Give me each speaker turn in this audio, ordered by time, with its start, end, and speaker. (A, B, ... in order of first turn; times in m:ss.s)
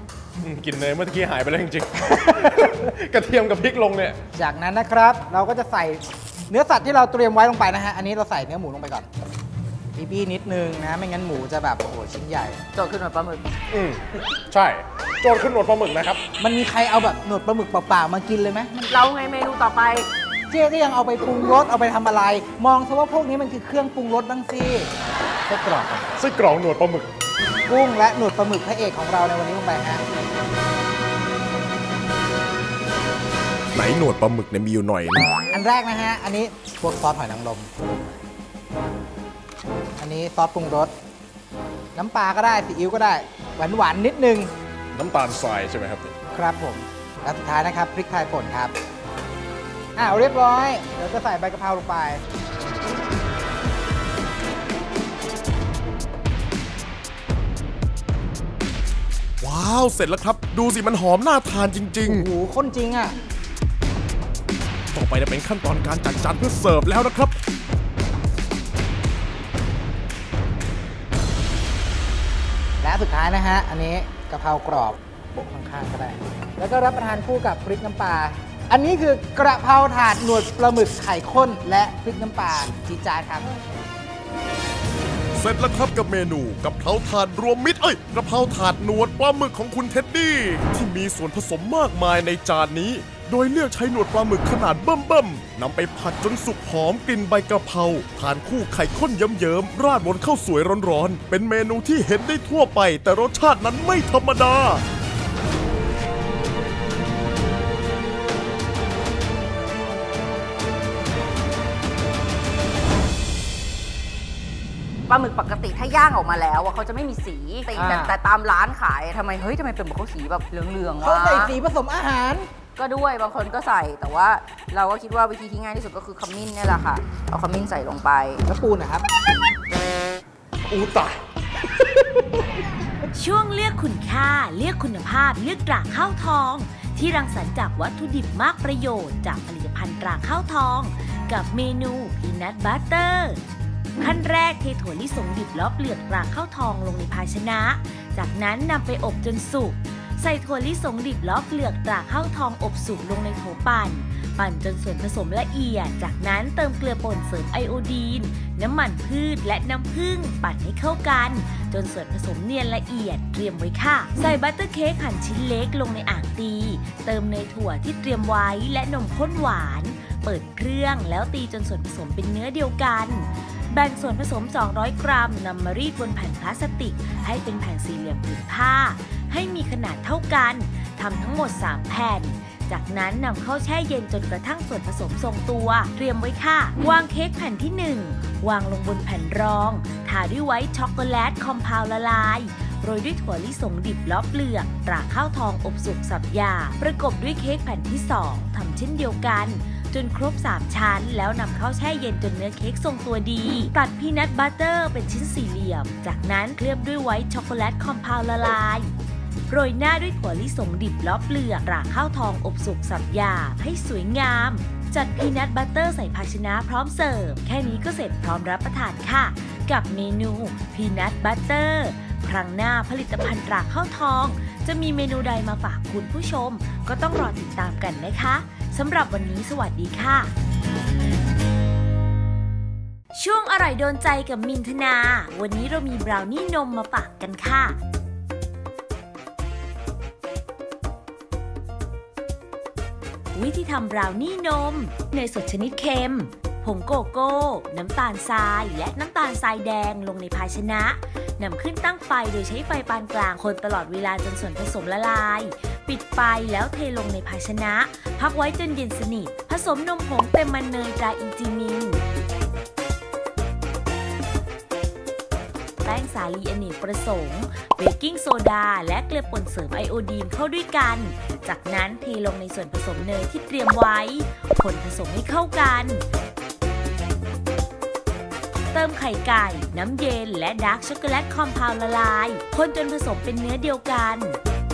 0:00.4-0:04.2 A
0:04.3-0:09.1 B
0:09.9-0:12.6 B
0:12.7-0:13.5 C
0:13.7-0:16.2 A
0:16.4-0:18.9 B
0:18.9-0:20.1 C
0:20.5-0:24.9 B
0:25.5-0:25.9 B
0:25.5-0:27.1 A
0:27.7-0:30.0 B
0:33.7-0:35.3 A
0:35.5-0:37.7 B
0:40.0-0:40.9 B
0:41.9-0:44.5 B
0:44.9-0:46.1 A
0:46.3-0:48.7 B
0:50.0-0:52.2 B
0:59.4-1:02.3 A
1:02.0-1:03.1 B
1:04.9-1:07.3 A
1:12.8-1:23.5 B
1:25.3-1:44.8 A
1:55.1-2:01.5 C
1:57.7-1:58.1 B
2:01.0-2:02.5 B
2:02.8-2:08.4 C
2:08.5-2:09.1 B
2:10.7-2:11.2 A
2:13.1-2:23.4 D
2:24.0-3:28.9 D
3:29.5-3:50.3 D
3:53.1-3:57.8 D
4:03.3-4:22.0 D
4:25.8-4:36.0 D
4:38.7-4:44.4 D